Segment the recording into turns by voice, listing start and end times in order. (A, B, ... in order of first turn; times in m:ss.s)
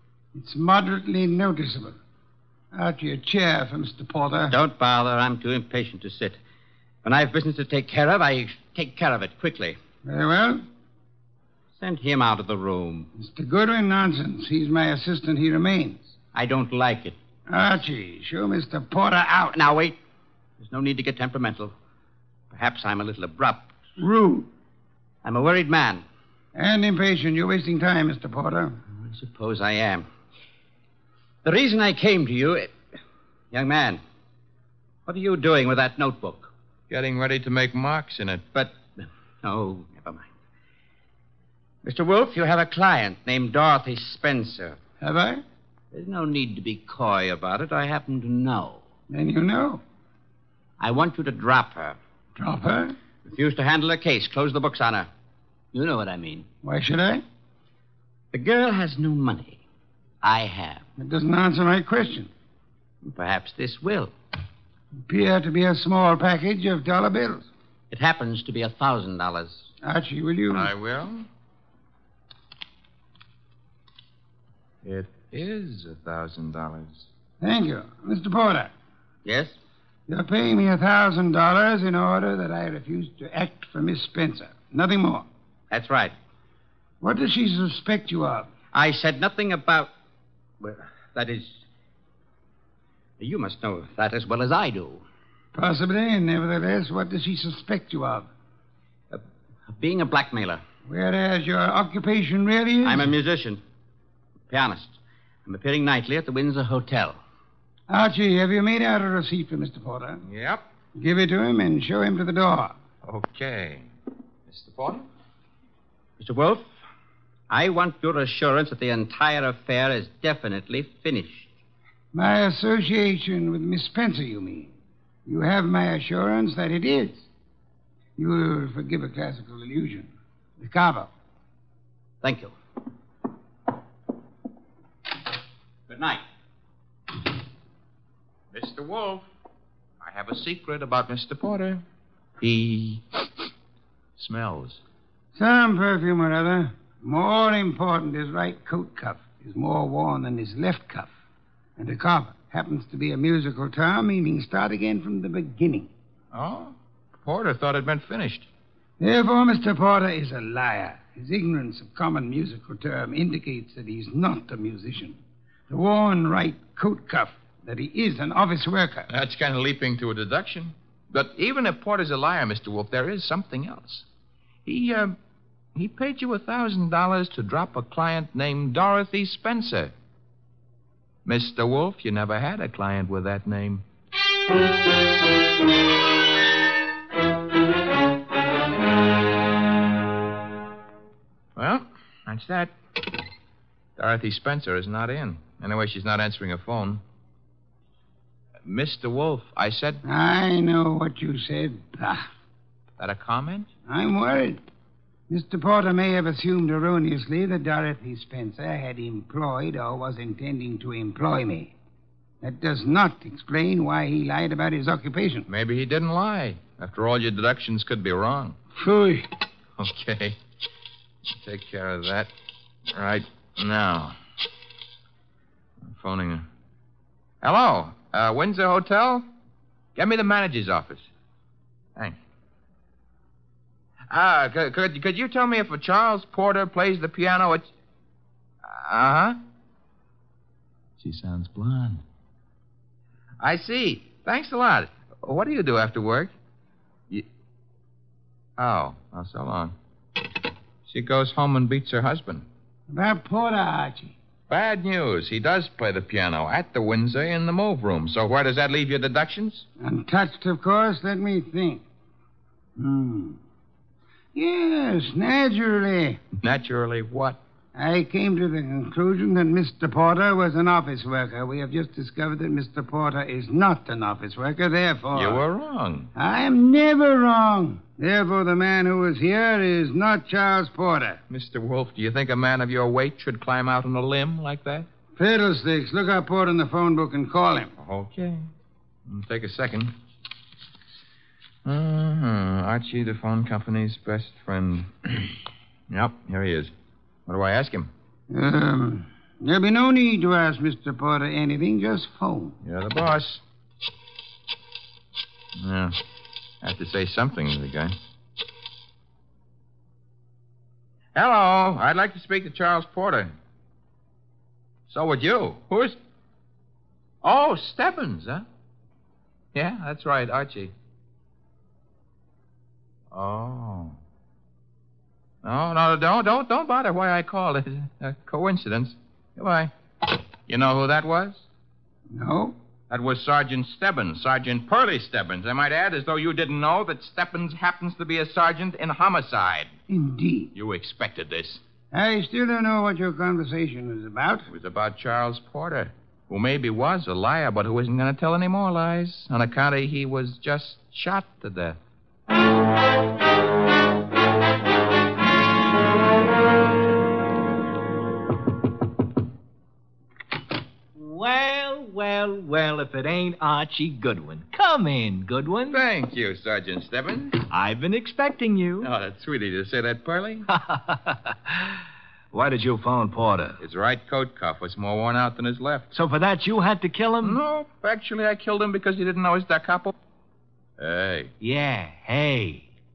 0:00.3-0:02.0 A
0:02.7-0:04.6 A
0:04.5-0:06.4 B
0:07.0-0:09.8 B
0:10.0-0:10.6 A
0:11.8-0:13.1 B
0:13.2-0:16.1 A
0:16.3-0:17.2 B
0:17.5-0:19.6 A
0:19.5-0:20.0 B
0:20.6-0:21.7 B
0:22.5-0:23.7 B
0:24.0-0:24.5 A
0:25.2-0:26.0 B
0:26.5-0:28.8 A
0:28.9-0:30.1 B
0:31.4-0:32.8 B
0:33.5-0:34.0 B
0:35.0-0:36.5 B
0:36.9-0:38.5 C
0:38.5-0:40.3 B
0:41.8-0:44.8 B
0:45.0-0:45.4 A
0:45.9-0:48.8 B
0:49.1-0:49.8 A
0:50.8-0:52.0 B
0:52.4-0:53.0 A
0:53.2-0:55.1 B
0:55.7-0:56.5 B
0:56.6-0:57.2 A
0:58.3-0:59.6 B
1:00.2-1:00.8 B
1:01.0-1:02.3 A
1:03.0-1:04.1 B
1:05.1-1:07.4 A
1:07.9-1:09.7 B
1:09.8-1:10.7 A
1:10.5-1:11.3 C
1:14.8-1:17.1 C
1:17.4-1:18.7 A
1:19.2-1:19.6 B
1:20.1-1:25.2 A
1:25.7-1:26.1 B
1:27.0-1:28.5 A
1:28.7-1:29.9 B
1:30.6-1:31.6 B
1:33.2-1:35.0 B
1:35.5-1:38.3 A
1:39.1-1:40.6 B
1:40.8-1:43.1 A
1:42.8-1:43.6 B
1:44.5-1:47.2 B
1:47.9-1:50.2 A
1:50.2-1:50.6 C
1:51.0-1:52.7 A
1:53.0-1:53.9 C
1:54.5-1:55.0 C
1:56.2-1:56.7 B
1:57.5-2:01.5 B
2:02.1-2:04.7 A
2:05.2-2:07.2 A
2:08.2-2:11.1 A
2:12.2-2:12.5 B
2:15.9-2:16.2 B
2:18.5-2:19.2 C
2:20.0-2:21.8 C
2:22.4-2:23.2 C
2:24.2-2:24.8 C
2:25.3-2:31.1 A
2:31.8-2:35.9 A
2:36.3-2:38.5 C
2:39.0-2:49.1 A
2:49.1-2:54.0 C
2:54.6-2:55.2 C
2:55.7-2:59.9 C
3:01.2-3:03.8 C
3:11.6-3:12.7 C
3:14.0-3:17.0 C
3:18.6-3:20.0 C
3:20.0-3:22.3 A
3:23.0-3:23.7 C
3:23.9-3:24.6 A
3:25.3-3:31.7 A
3:32.4-3:35.5 A
3:35.5-3:38.6 C
3:38.8-3:39.3 A
3:39.8-3:40.4 C
3:41.4-3:42.3 C
3:42.9-3:44.2 C
3:45.9-3:46.4 C
3:47.4-3:49.2 C
3:50.0-3:51.1 C
3:54.1-3:57.7 C
3:58.6-3:59.4 C
4:01.0-4:02.0 C
4:03.4-4:06.3 C
4:08.6-4:09.7 C
4:10.8-4:12.4 C
4:12.9-4:14.1 A
4:14.5-4:19.6 C
4:19.8-4:21.8 A
4:22.8-4:23.4 A
4:24.3-4:26.2 A
4:26.4-4:27.4 C
4:27.7-4:35.4 A
4:35.1-4:36.1 C
4:36.2-4:41.2 A
4:41.3-4:44.9 C
4:45.2-4:47.7 A
4:47.8-4:48.5 C
4:49.1-4:49.9 C
4:51.6-4:55.3 C
4:55.9-4:56.7 C
4:57.2-4:57.9 C
4:58.3-5:02.5 A
5:02.6-5:03.4 C
5:05.6-5:06.0 C
5:06.6-5:07.9 C
5:11.1-5:13.3 C
5:14.9-5:16.0 C
5:17.2-5:18.4 C
5:19.5-5:20.7 C
5:23.1-5:24.0 C
5:25.4-5:29.7 C
5:30.4-5:31.4 C
5:32.1-5:32.5 A
5:32.9-5:39.7 C
5:39.9-5:40.5 A
5:40.5-5:41.6 C
5:41.9-5:44.5 A
5:44.5-5:51.8 C
6:01.0-6:05.8 D
6:05.7-6:07.4 C
6:07.5-6:08.9 D
6:08.8-6:10.4 C
6:10.5-6:11.5 D
6:12.3-6:13.6 D
6:13.6-6:15.9 C
6:15.9-6:17.4 D
6:17.2-6:19.9 C
6:20.8-6:21.3 C
6:21.4-6:22.7 D